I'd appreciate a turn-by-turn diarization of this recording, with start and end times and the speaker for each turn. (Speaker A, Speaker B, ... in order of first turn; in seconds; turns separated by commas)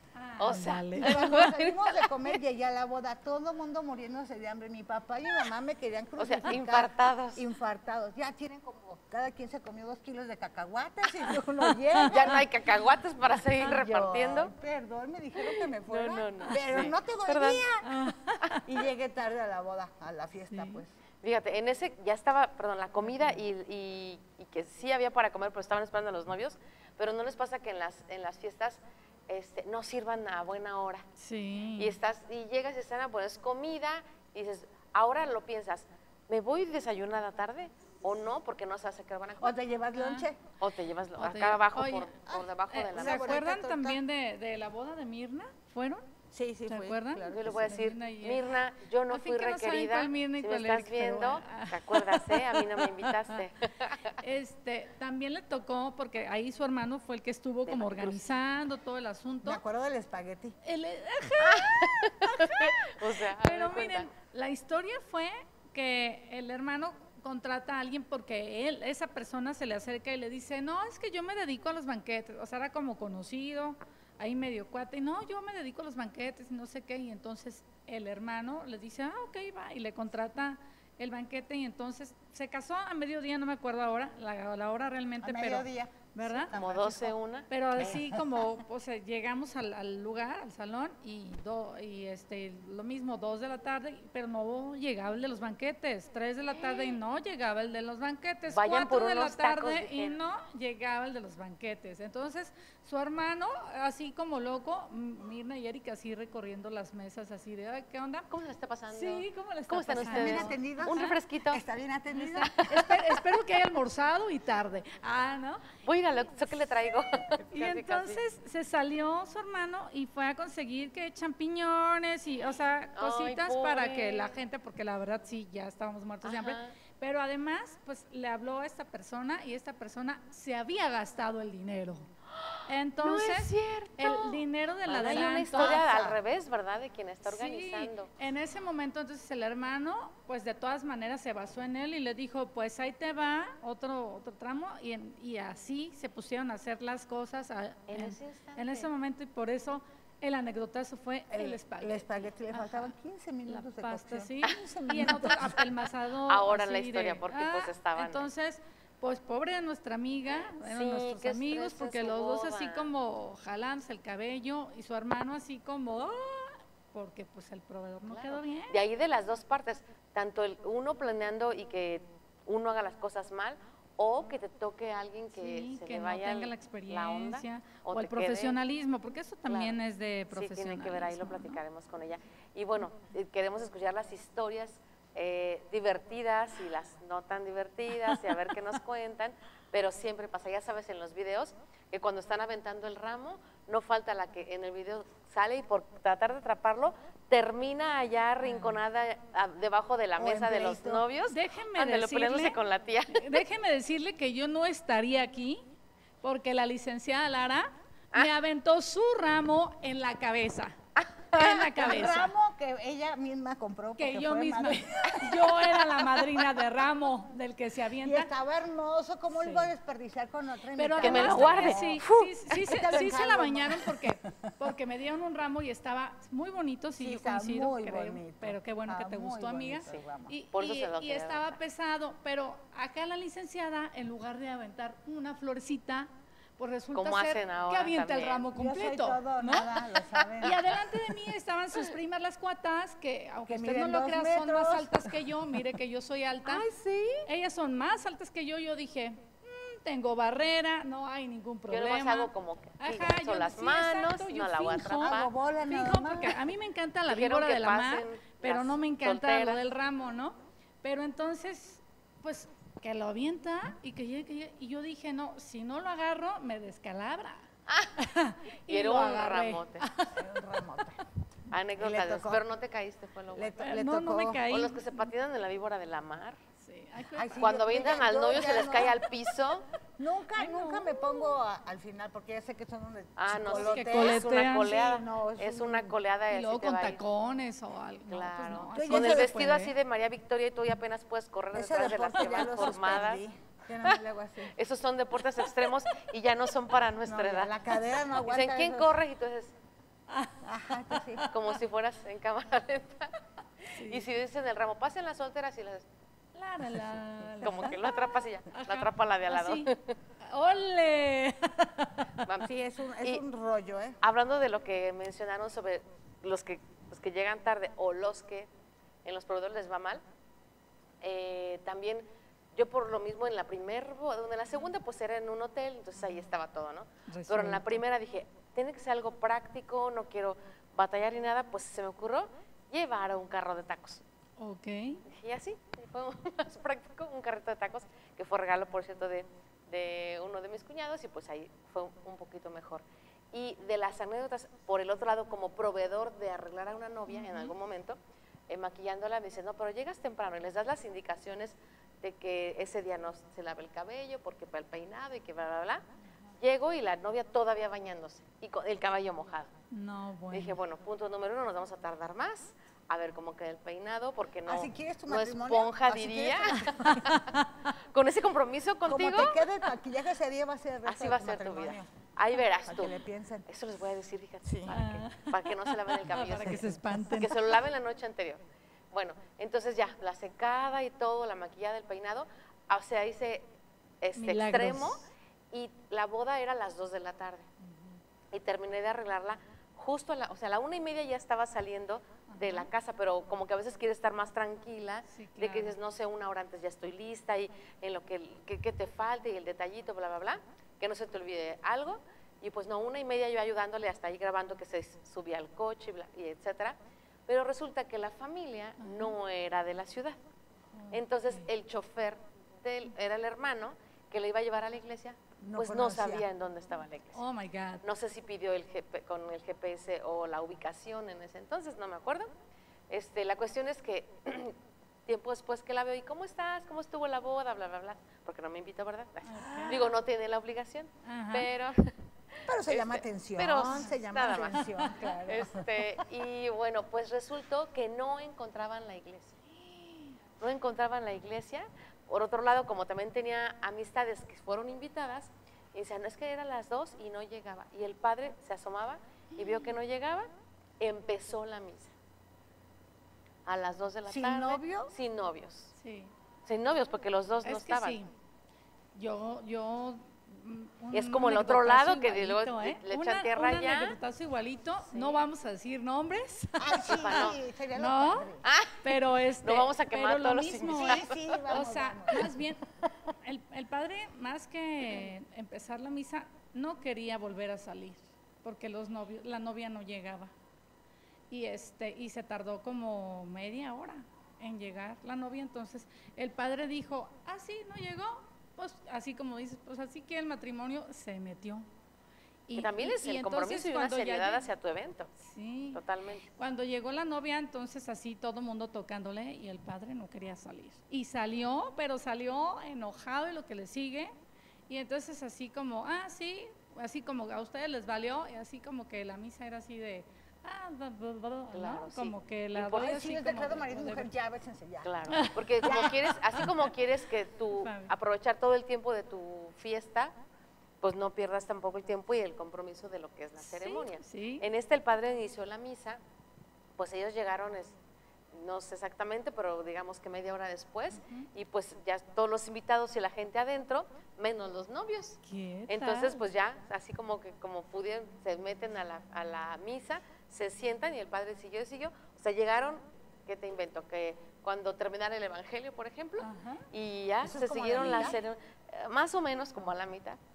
Speaker A: 0.1-1.4, Speaker B: 0.4-2.3, Speaker C: 1.0-12.5, Speaker B: 6.2-7.4, Speaker A: 11.9-12.3, Speaker B: 12.1-14.5, Speaker C: 13.6-17.9, Speaker B: 15.9-17.7, Speaker A: 17.8-18.6, Speaker C: 18.6-20.9, Speaker A: 20.5-20.8, Speaker B: 21.2-31.0, Speaker A: 31.2-31.9, Speaker B: 31.8-39.5, Speaker C: 39.4-40.5, Speaker A: 40.0-40.2, Speaker B: 40.6-43.4, Speaker A: 41.2-42.1, Speaker C: 42.3-44.0, Speaker A: 42.7-46.0, Speaker C: 46.3-47.8, Speaker A: 46.7-48.4, Speaker B: 47.3-54.1, Speaker A: 49.1-53.4, Speaker A: 54.2-59.6, Speaker B: 57.7-58.2, Speaker C: 59.4-60.5, Speaker A: 60.6-85.7, Speaker B: 61.4-64.1, Speaker C: 85.2-87.2, Speaker A: 86.2-86.5, Speaker B: 86.5-87.9, Speaker A: 87.5-108.3, Speaker C: 87.8-88.4, Speaker B: 98.5-100.2, Speaker B: 108.3-111.6, Speaker A: 108.9-111.1, Speaker C: 110.0-112.7, Speaker A: 112.1-115.7, Speaker B: 112.5-113.2, Speaker B: 115.8-118.2, Speaker A: 117.5-132.1, Speaker B: 123.0-124.3, Speaker B: 126.2-126.7, Speaker B: 132.4-138.1, Speaker A: 132.7-135.8, Speaker C: 135.0-136.2, Speaker A: 137.2-152.9, Speaker B: 147.9-148.9, Speaker C: 151.3-155.6, Speaker A: 153.5-168.8, Speaker B: 154.4-155.2, Speaker B: 156.3-158.3, Speaker B: 160.4-162.9, Speaker B: 168.1-178.5, Speaker A: 175.3-181.6, Speaker B: 179.4-179.8, Speaker B: 180.3-203.4, Speaker A: 198.4-198.8, Speaker C: 200.2-201.0, Speaker A: 201.3-202.6, Speaker A: 203.1-205.6, Speaker A: 206.2-210.8, Speaker B: 211.0-212.0, Speaker A: 211.3-212.3, Speaker C: 211.8-215.5, Speaker A: 214.0-218.3, Speaker C: 218.0-222.0, Speaker A: 219.3-219.7, Speaker A: 220.8-239.7, Speaker B: 221.0-223.0, Speaker C: 222.7-224.3, Speaker C: 227.0-230.3, Speaker B: 229.9-231.6, Speaker B: 236.9-238.5, Speaker C: 238.5-240.6, Speaker B: 240.2-240.6, Speaker A: 240.4-246.6, Speaker C: 243.5-245.1, Speaker B: 246.4-247.2, Speaker A: 247.2-270.2, Speaker B: 251.7-255.3, Speaker C: 255.0-256.4, Speaker B: 257.1-259.6, Speaker B: 267.7-267.9, Speaker B: 268.7-269.8, Speaker C: 270.1-271.0, Speaker B: 271.5-273.7, Speaker C: 271.8-272.4, Speaker C: 273.3-274.4, Speaker A: 273.6-275.1, Speaker B: 274.5-276.4, Speaker A: 276.6-277.4, Speaker C: 277.1-279.0, Speaker B: 277.4-279.6, Speaker C: 280.0-285.9, Speaker A: 280.4-281.0, Speaker B: 283.2-287.0, Speaker A: 283.5-284.8, Speaker A: 286.3-289.7, Speaker B: 288.1-293.2, Speaker C: 288.7-289.3, Speaker C: 291.5-294.5, Speaker B: 294.5-297.5, Speaker C: 297.1-298.9, Speaker B: 298.2-299.5, Speaker C: 300.4-301.3, Speaker A: 300.9-301.3, Speaker B: 301.3-303.1, Speaker A: 303.7-304.0, Speaker B: 303.8-305.8, Speaker A: 306.3-309.7, Speaker B: 307.4-309.9, Speaker A: 310.2-312.0, Speaker C: 312.4-314.0, Speaker B: 314.0-318.5, Speaker B: 319.0-320.0, Speaker B: 321.0-334.0, Speaker A: 327.1-327.7, Speaker A: 334.4-335.0, Speaker B: 335.1-348.0, Speaker A: 347.1-347.5, Speaker B: 348.5-355.8, Speaker B: 356.4-359.5, Speaker A: 359.7-360.6, Speaker B: 360.3-367.2, Speaker C: 364.4-367.0, Speaker A: 366.9-367.5, Speaker B: 367.9-369.4, Speaker C: 368.9-371.9, Speaker B: 370.9-372.9, Speaker C: 372.6-373.5, Speaker B: 373.5-378.4, Speaker C: 374.4-374.7, Speaker A: 374.7-377.3, Speaker C: 376.4-377.0, Speaker B: 378.9-383.4, Speaker B: 384.0-387.5, Speaker A: 384.2-385.0, Speaker A: 387.6-388.0, Speaker B: 388.3-410.2, Speaker A: 392.3-392.7, Speaker A: 395.1-395.7, Speaker A: 408.8-409.1, Speaker A: 410.8-411.4, Speaker B: 410.9-417.2, Speaker C: 415.4-416.2, Speaker A: 417.1-417.8, Speaker B: 417.8-422.3, Speaker B: 422.9-424.5, Speaker B: 425.1-431.9, Speaker A: 429.2-429.8, Speaker A: 431.0-431.5, Speaker C: 432.5-435.6, Speaker B: 432.7-434.7, Speaker A: 433.7-434.7, Speaker B: 435.2-439.4, Speaker A: 439.7-440.1, Speaker B: 440.4-450.3, Speaker B: 450.8-451.9, Speaker B: 453.4-455.7, Speaker C: 454.1-454.9, Speaker A: 455.8-456.1, Speaker B: 456.5-458.0, Speaker A: 457.4-458.1, Speaker A: 458.9-468.3, Speaker B: 460.9-463.9, Speaker B: 464.9-465.2, Speaker C: 466.6-468.4, Speaker B: 466.9-467.4, Speaker B: 468.4-468.8, Speaker A: 468.8-472.6, Speaker B: 469.4-471.3, Speaker C: 470.7-472.4, Speaker A: 473.2-480.3, Speaker A: 481.3-491.6, Speaker A: 492.5-494.4, Speaker B: 492.6-495.1, Speaker A: 495.2-495.8, Speaker B: 495.7-496.2, Speaker A: 496.4-504.1, Speaker A: 504.7-514.1, Speaker B: 511.5-513.0, Speaker C: 512.7-514.9, Speaker B: 514.8-520.1, Speaker A: 515.1-516.6, Speaker C: 515.6-516.0, Speaker A: 517.5-517.9, Speaker B: 520.8-526.0, Speaker A: 523.4-524.4, Speaker B: 526.8-527.7, Speaker B: 528.3-550.2, Speaker A: 530.9-531.2, Speaker A: 535.2-536.2, Speaker A: 546.2-546.6, Speaker C: 547.2-548.2